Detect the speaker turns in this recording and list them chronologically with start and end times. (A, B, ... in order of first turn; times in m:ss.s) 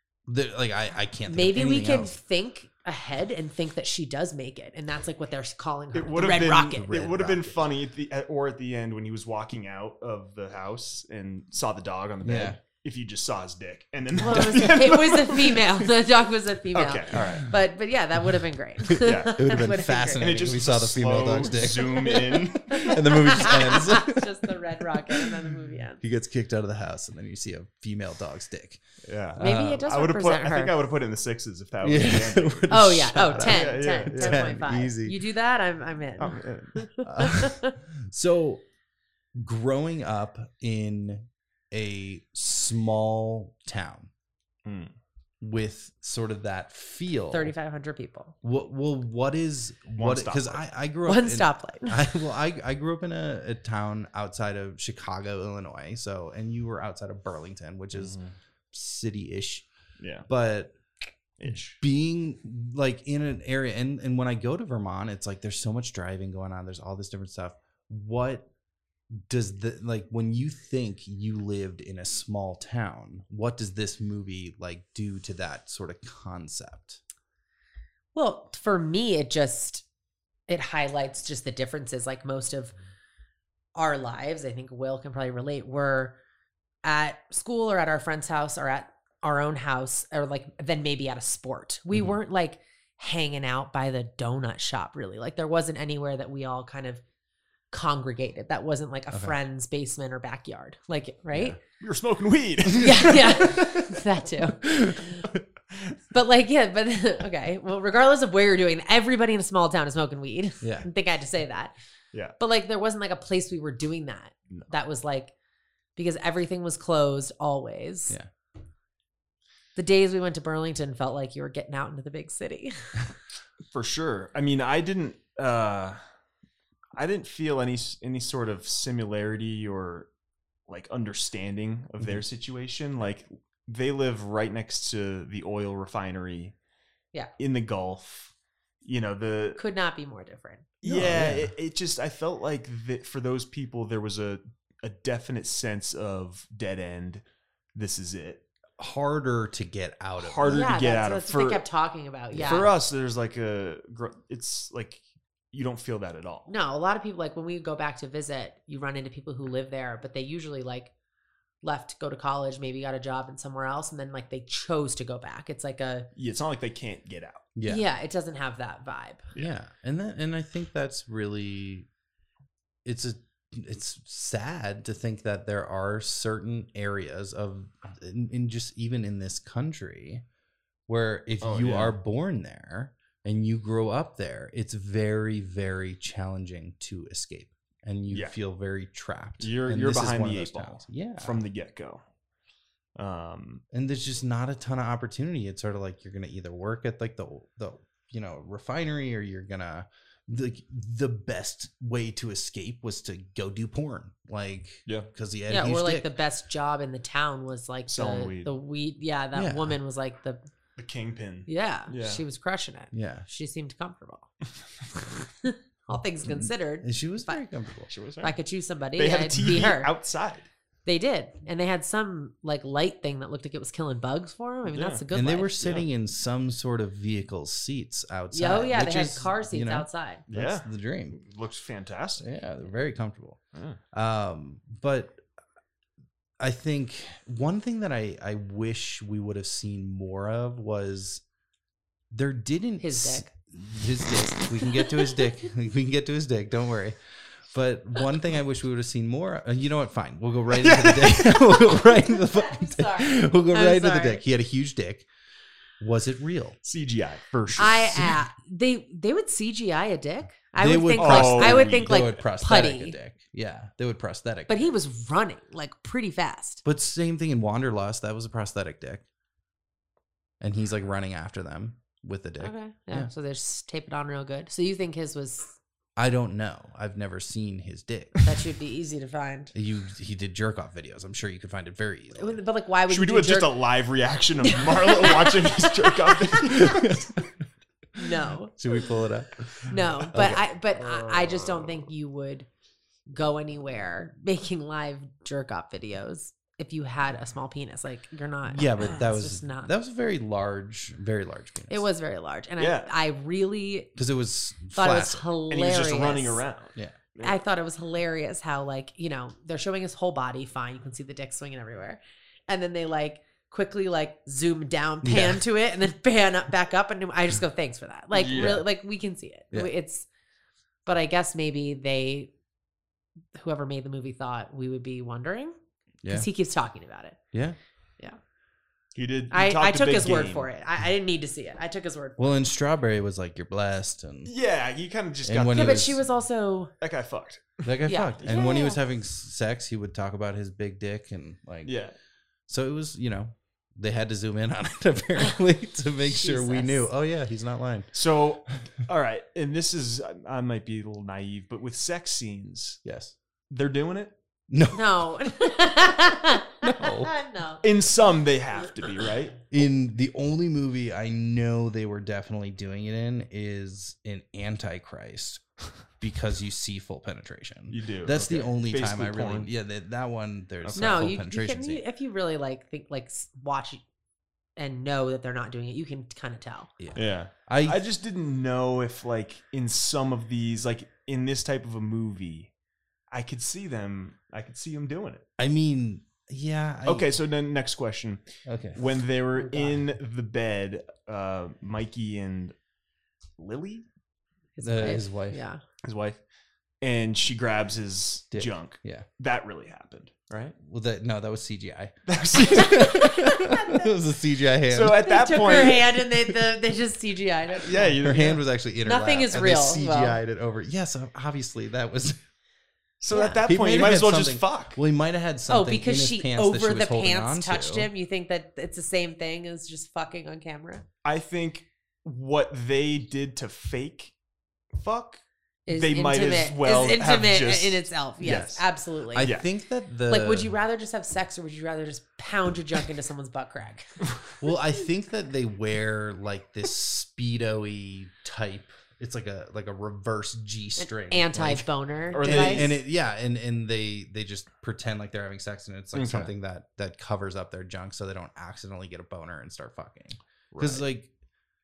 0:00.3-0:02.2 A
0:01.2-0:06.9 B
0:05.9-0:15.8 C
0:06.6-0:07.7 A
0:12.2-0:12.6 A
0:14.2-0:20.2 B
0:14.3-0:14.6 A
0:16.7-0:17.5 C
0:18.9-0:28.8 A
0:19.0-0:23.4 C
0:21.8-0:26.0 B
0:29.0-0:34.4 C
0:29.3-0:29.8 A
0:29.4-0:30.7 B
0:31.8-0:35.2 A
0:32.7-0:37.8 B
0:36.2-0:36.8 C
0:37.0-0:38.6 A
0:39.4-0:44.1 A
0:44.6-0:44.9 C
0:45.4-0:47.5 A
0:47.3-0:48.3 B
0:48.4-0:58.2 A
0:49.9-0:50.6 C
0:51.0-0:52.2 B
0:57.9-0:58.3 C
0:58.7-0:59.7 A
1:00.0-1:00.3 C
1:00.3-1:00.8 A
1:01.4-1:01.8 C
1:01.4-1:08.5 A
1:09.1-1:17.0 A
1:18.1-1:19.9 B
1:20.5-1:22.7 B
1:23.8-1:26.2 B
1:26.8-1:37.0 B
1:37.7-1:41.6 B
1:41.3-1:41.6 A
1:41.8-1:43.6 C
1:42.7-1:45.3 B
1:43.0-1:43.9 A
1:44.6-1:45.4 A
1:46.1-1:51.7 B
1:50.6-1:50.9 A
1:52.4-1:55.3 B
1:56.0-1:58.2 B
1:59.8-2:03.0 B
2:03.7-2:06.0 C
2:07.0-2:10.1 C
2:10.7-2:16.6 C
2:17.4-2:19.6 C
2:19.6-2:20.6 B
2:20.8-2:27.2 C
2:20.8-2:21.5 A
2:27.7-2:28.4 C
2:28.8-2:30.8 A
2:30.2-2:31.6 C
2:30.5-2:32.7 B
2:32.3-2:36.5 C
2:36.5-2:40.9 B
2:41.6-2:46.1 B
2:46.2-2:47.4 C
2:47.6-2:47.8 A
2:47.6-2:49.3 B
2:49.4-2:51.9 A
2:52.8-3:00.2 A
3:00.9-3:11.4 A
3:01.4-3:01.9 C
3:08.1-3:08.4 C
3:09.4-3:12.0 C
3:13.0-3:13.6 C
3:13.7-3:26.1 A
3:25.5-3:30.4 B
3:27.9-3:28.5 C
3:29.3-3:29.8 A
3:30.8-3:32.2 C
3:31.5-3:34.3 B
3:32.9-3:33.3 A
3:35.4-3:37.4 B
3:36.2-3:37.9 A
3:37.9-3:38.3 C
3:38.2-3:39.9 B
3:39.0-3:40.5 C
3:40.9-3:45.5 B
3:44.7-3:45.0 C
3:45.1-3:51.2 A
3:45.6-3:45.9 C
3:48.3-3:50.2 B
3:50.3-3:52.3 C
3:52.2-3:53.4 A
3:53.9-3:55.2 A
3:56.4-4:01.2 A
4:02.1-4:07.0 A
4:02.8-4:03.3 B
4:07.5-4:15.1 A
4:10.5-4:11.8 C
4:12.0-4:14.2 B
4:15.8-4:16.6 A
4:16.6-4:18.1 C
4:17.5-4:18.1 A
4:17.6-4:23.0 B
4:20.6-4:24.7 A
4:21.0-4:22.2 C
4:24.5-4:26.6 B
4:26.6-4:29.0 A
4:30.4-4:33.1 A
4:32.4-4:35.6 B
4:36.0-4:38.2 A
4:38.2-4:39.5 B
4:39.5-4:42.4 A
4:42.1-4:43.6 B
4:42.9-4:47.1 C
4:44.4-4:46.8 B
4:46.5-4:47.2 A
4:48.0-4:48.6 B
4:48.6-4:49.4 A
4:49.7-4:52.5 B
4:50.0-4:51.9 C
4:50.1-4:50.4 A
4:53.1-4:59.7 B
4:58.5-5:01.8 A
5:01.7-5:03.9 B
5:02.6-5:02.9 C
5:04.0-5:05.3 A
5:04.7-5:06.4 B
5:05.5-5:07.4 C
5:07.2-5:20.1 B
5:15.0-5:15.4 A
5:18.1-5:18.6 C
5:20.9-5:22.3 B
5:23.3-5:25.6 B
5:26.0-5:26.3 A
5:26.1-5:27.2 B
5:28.9-5:30.5 C
5:29.3-5:32.3 B
5:32.2-5:34.3 A
5:34.3-5:36.0 C
5:35.2-5:36.0 A
5:35.5-5:36.7 B
5:36.8-5:37.7 C
5:37.6-5:41.7 A
5:37.9-5:38.8 B
5:41.6-5:41.9 C
5:42.5-5:47.9 A
5:46.0-5:46.9 B
5:47.9-5:52.8 C
5:52.8-5:53.1 A
5:53.5-5:54.1 C
5:54.5-5:55.6 A
5:54.7-5:57.6 B
5:56.6-5:57.1 A
5:57.6-5:59.4 C
5:59.5-6:05.4 A
6:06.0-6:11.8 A
6:07.7-6:09.5 C
6:10.6-6:11.0 C
6:10.8-6:13.8 B
6:14.6-6:16.7 B
6:16.8-6:17.8 A
6:16.9-6:22.5 C
6:23.1-6:25.2 C
6:25.4-6:27.1 A
6:26.9-6:32.6 C
6:28.4-6:28.8 A
6:33.4-6:33.9 C
6:34.6-6:35.6 B
6:34.6-6:35.4 A
6:35.8-6:36.2 C
6:36.8-6:40.6 C
6:38.3-6:39.0 A
6:40.6-6:45.7 A
6:42.1-6:42.9 C
6:42.5-6:43.9 B
6:44.7-6:45.9 C
6:45.0-6:48.0 B
6:47.6-6:48.4 C
6:47.9-6:52.2 A
6:48.8-6:50.2 B
6:53.0-6:54.8 C
6:53.1-6:53.4 B
6:53.4-6:57.9 A
6:55.5-7:00.8 B
7:01.0-7:04.1 C
7:04.8-7:08.6 C
7:05.7-7:09.3 B
7:08.2-7:08.5 A
7:09.1-7:10.5 A
7:09.2-7:09.5 C
7:10.1-7:14.0 B
7:14.4-7:21.7 A
7:20.8-7:22.7 B
7:22.1-7:22.8 C
7:22.2-7:31.1 A
7:25.9-7:26.3 C
7:30.5-7:30.8 C